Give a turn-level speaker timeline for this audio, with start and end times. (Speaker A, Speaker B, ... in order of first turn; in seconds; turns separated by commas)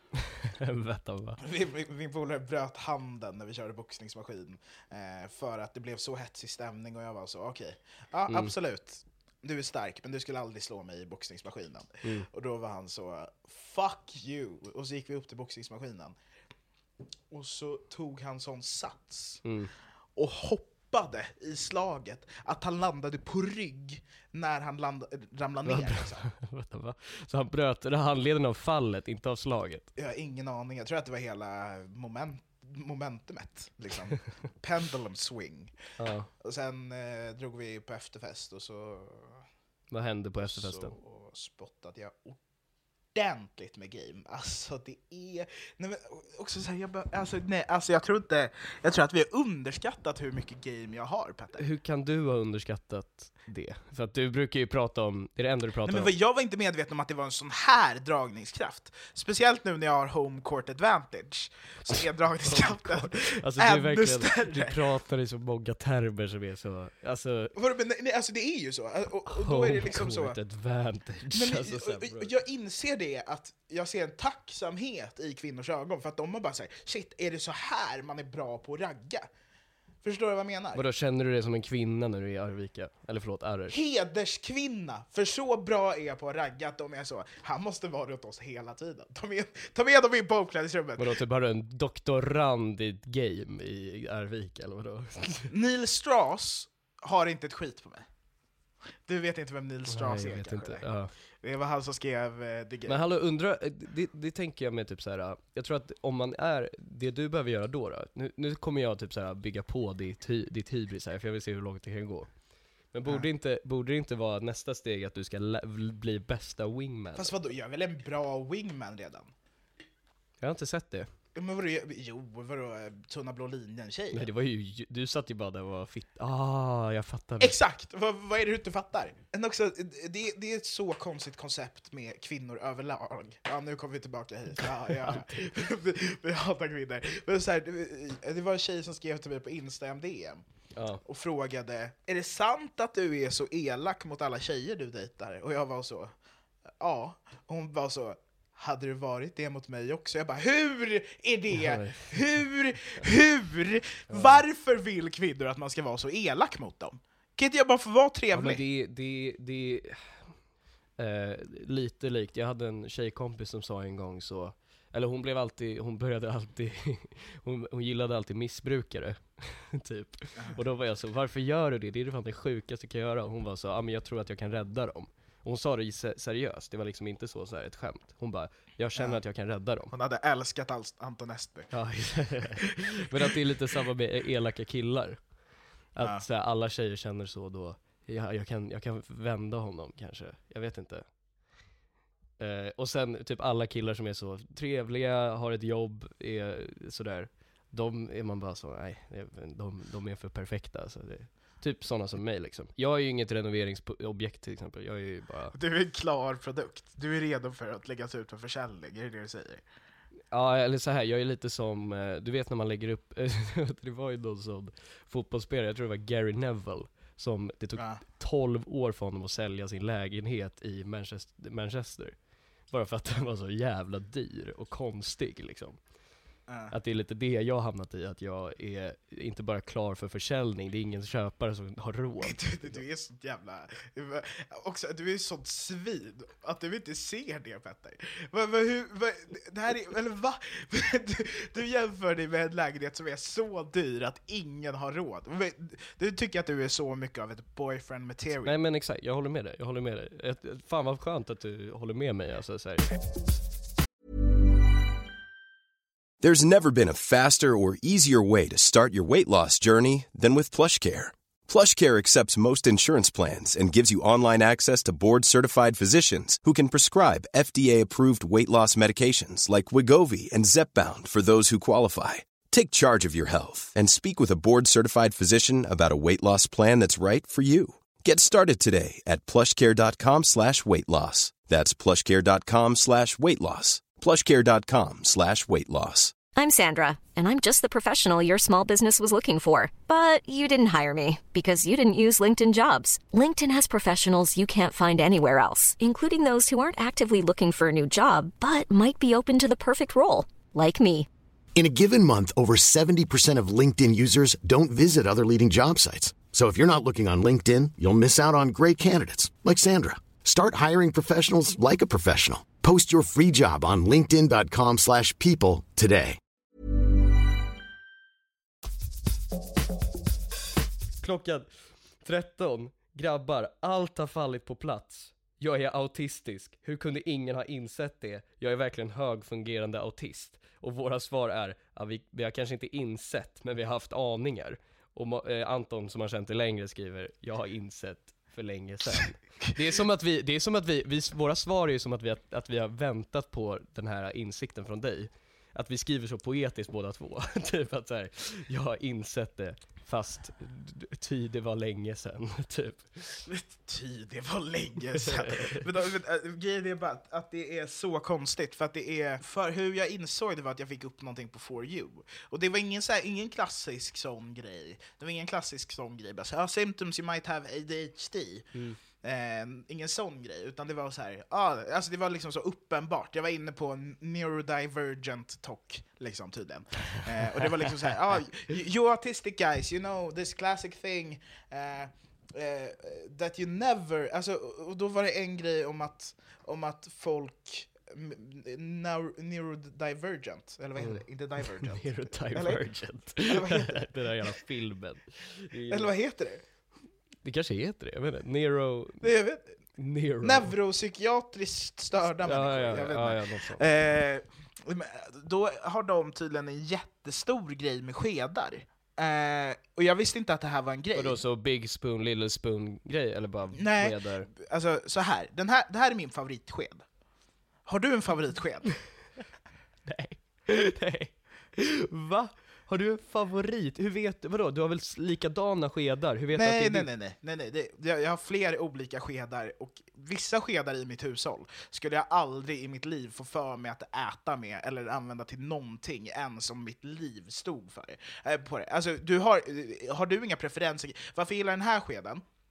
Speaker A: 0.4-1.4, Speaker B: 1.4-16.2, Speaker B: 17.3-19.4, Speaker A: 19.4-19.7, Speaker B: 20.2-26.2, Speaker A: 25.7-29.9, Speaker B: 30.0-35.8, Speaker A: 36.0-36.3, Speaker B: 36.4-39.4, Speaker A: 39.9-40.9, Speaker B: 40.4-42.4, Speaker B: 43.1-51.6, Speaker A: 51.6-56.1, Speaker B: 55.9-64.8, Speaker A: 61.9-67.5, Speaker B: 67.6-70.4, Speaker A: 69.3-72.3, Speaker B: 71.3-79.3, Speaker B: 80.0-80.8, Speaker A: 80.8-83.8, Speaker B: 83.7-91.1, Speaker A: 91.0-95.5, Speaker B: 95.5-98.0, Speaker B: 99.1-100.8, Speaker A: 99.9-101.1, Speaker B: 101.4-103.0, Speaker A: 102.9-112.3, Speaker A: 112.9-117.3, Speaker B: 117.2-119.3, Speaker A: 120.4-121.1, Speaker B: 121.3-124.3, Speaker A: 124.1-127.5, Speaker B: 127.4-140.4, Speaker A: 134.6-135.5, Speaker A: 140.8-141.0, Speaker B: 141.0-146.1, Speaker B: 146.8-158.6, Speaker A: 151.6-152.2, Speaker A: 154.1-154.4, Speaker A: 158.3-160.3, Speaker A: 161.0-179.9, Speaker B: 179.0-179.2, Speaker B: 179.9-181.7, Speaker A: 181.7-185.2, Speaker A: 185.9-191.1, Speaker B: 186.0-186.2, Speaker A: 192.4-205.5, Speaker B: 205.5-209.6, Speaker A: 210.3-225.8, Speaker B: 217.8-218.0, Speaker B: 226.5-226.7, Speaker A: 226.7-232.8, Speaker B: 232.2-248.5, Speaker A: 248.4-252.9, Speaker C: 256.2-286.1, Speaker D: 286.4-301.1, Speaker E: 301.5-316.2, Speaker A: 321.0-321.5, Speaker A: 322.0-353.2, Speaker B: 353.2-392.6, Speaker A: 355.0-355.6, Speaker A: 390.8-391.0, Speaker A: 391.6-395.9, Speaker B: 393.1-393.9, Speaker B: 395.7-396.4, Speaker A: 397.2-399.0, Speaker B: 399.0-399.6, Speaker A: 399.8-400.5, Speaker B: 400.2-411.2, Speaker A: 402.2-403.6, Speaker A: 410.9-414.3, Speaker B: 413.6-416.9, Speaker B: 417.6-418.9, Speaker A: 419.9-426.9, Speaker B: 426.4-442.2